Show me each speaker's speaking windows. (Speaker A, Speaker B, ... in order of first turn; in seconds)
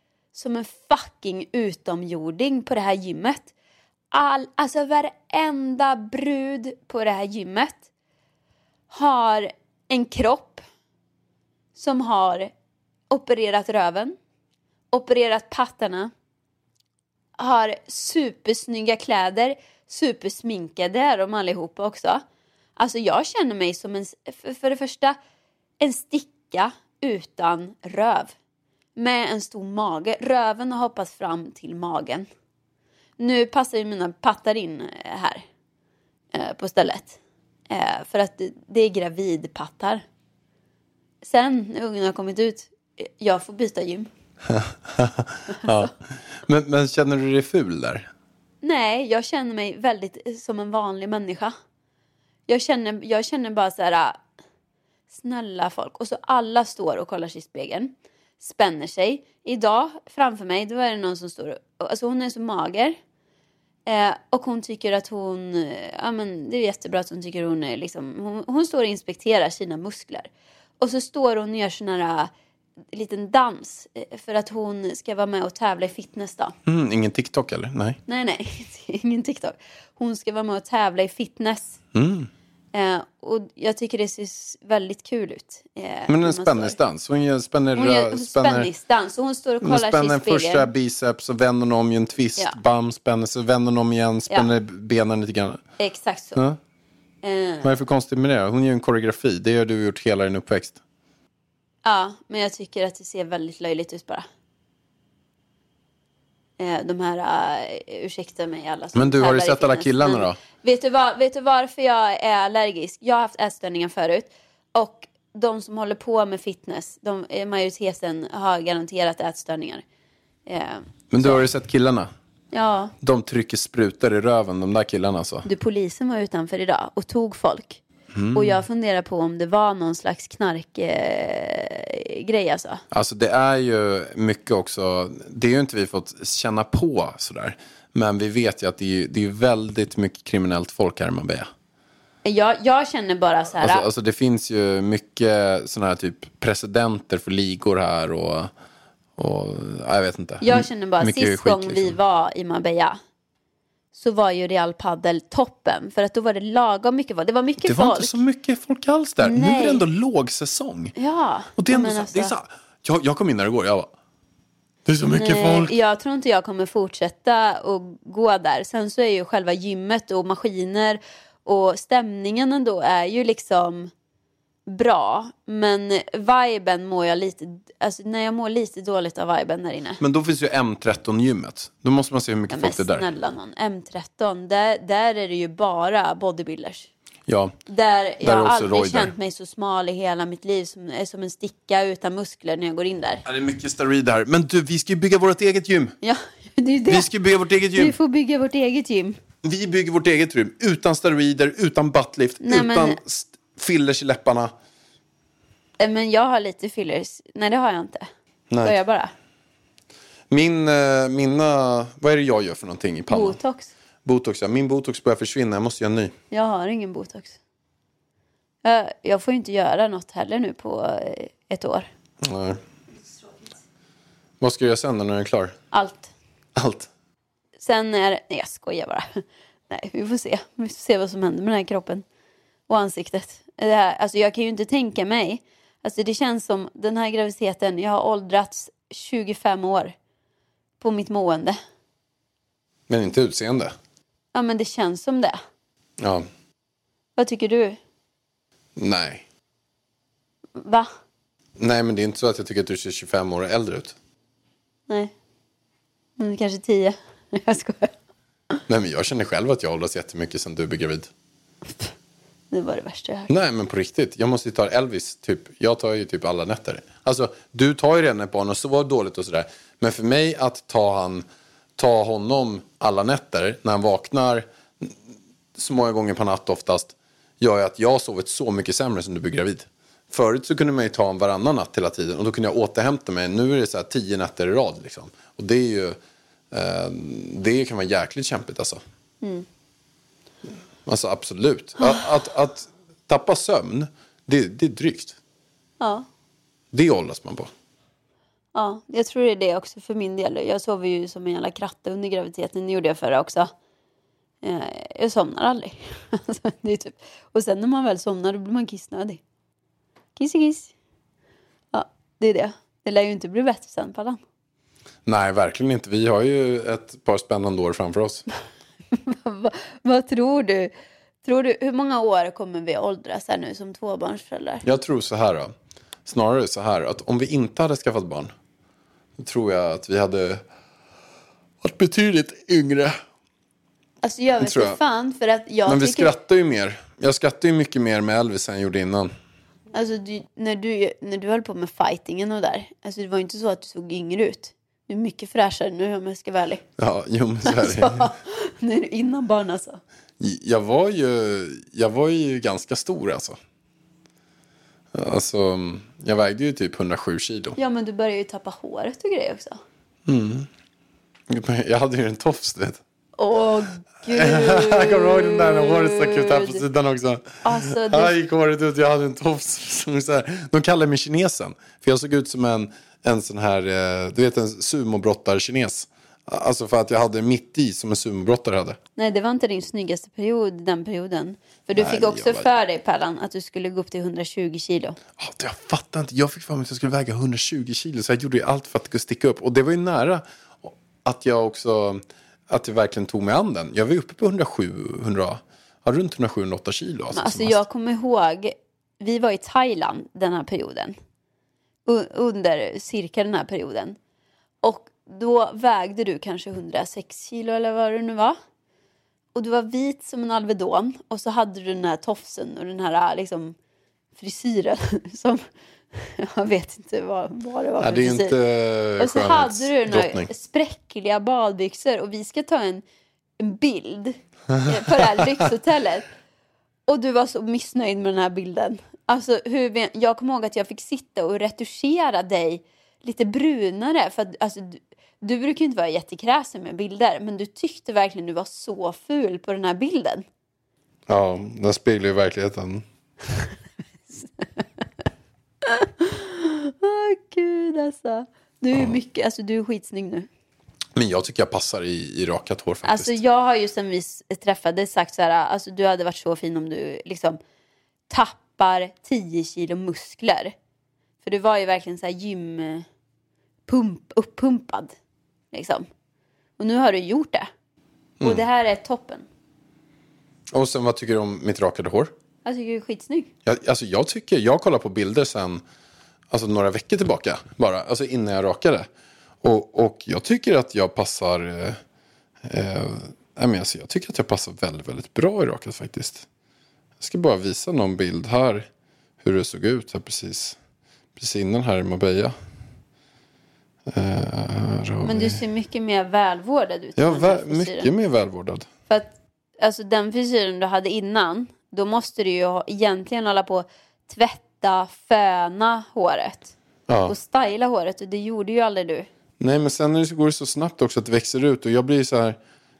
Speaker A: 0.3-3.5, 4.1-7.8, 8.9-10.6, 11.8-12.5, 13.1-14.2, 14.9-16.1, 17.4-22.2, 22.8-25.2, 25.8-28.3, 28.9-32.3, 33.2-35.4, 36.3-37.2, 37.7-40.0, 41.2-44.1, 48.6-51.5, 52.5-54.2, 55.1-63.0, 63.9-70.3, 70.8-72.3, 72.9-76.5, 78.1-81.8, 82.7-86.8, 87.8-90.7, 95.8-96.4, 97.2-97.7, 101.8-104.3, 106.6-119.8, 120.5-121.4, 122.5-122.9, 125.5-127.8, 128.3-132.8, 142.2-143.9, 150.4-153.0, 153.9-158.2, 159.2-159.8, 160.9-162.3, 165.2-173.9, 174.7-180.0, 182.5-186.9, 187.7-193.2, 196.0-197.1, 197.8-199.2, 202.4-203.0, 205.8-208.1, 208.6-209.1, 213.1-213.7, 216.3-217.4, 218.6-221.9, 225.7-226.1, 227.6-232.0, 232.7-239.9, 240.8-241.6, 244.3-245.4, 247.2-247.8, 250.6-250.9, 256.2-257.9, 262.5-263.3, 291.8-292.1, 295.8-296.1, 298.6-303.5, 304.4-309.2, 310.2-310.7, 311.7-314.2, 318.9-320.7, 321.2-324.6, 334.0-336.1, 339.7-346.6, 347.4-349.8, 357.6-359.6, 363.2-366.6, 367.4-368.1, 379.0-385.0, 397.1-400.9, 401.9-404.0, 404.6-408.4, 409.4-413.6, 414.2-418.4, 419.0-422.8, 423.4-426.1, 426.9-440.2, 444.1-444.6, 445.6-450.3, 452.9-457.4, 458.1-460.5, 461.2-462.9, 463.7-464.9, 465.5-465.9, 466.6-467.5, 468.2-469.3, 472.4-473.3, 495.0-497.9, 498.9-506.5, 507.1-509.1
Speaker B: 44.5-48.1, 76.7-78.0, 81.9-82.3, 86.1-88.7, 89.6-95.6, 97.6-100.8, 109.0-110.4, 121.1-122.1, 123.0-125.5, 128.1-128.6, 132.9-141.5, 143.6-148.5, 149.2-152.0, 157.6-160.9, 161.6-163.9, 164.8-165.7, 180.0-183.1, 187.3-187.5, 188.2-189.1, 193.2-195.9, 196.9-197.9, 199.4-204.5, 208.5-208.8, 210.3-213.4, 214.1-216.1, 222.2-222.6, 224.4-225.6, 226.6-226.9, 242.9-243.8, 246.0-246.3, 248.8-249.2, 251.6-253.9, 258.7-261.1, 263.3-271.3, 271.8-275.0, 275.6-286.0, 286.5-288.8, 290.9-295.2, 296.7-297.5, 315.1-318.3, 324.6-325.5, 326.1-328.3, 329.2-330.4, 331.6-333.0, 334.4-334.8, 335.7-339.1, 346.8-348.1, 350.2-353.4, 354.9-357.6, 360.1-360.5, 361.3-362.8, 364.1-378.8, 381.8-382.5, 385.2-397.6, 417.8-420.3, 424.5-425.3, 441.1-442.9, 450.9-453.2, 468.2-468.4, 470.5-472.1, 473.4-475.6, 476.3-478.9, 479.4-481.8, 482.4-486.3, 487.0-488.7, 489.2-490.6, 491.2-492.4, 493.9-495.4, 497.0-498.7, 506.9-507.1, 509.4-512.4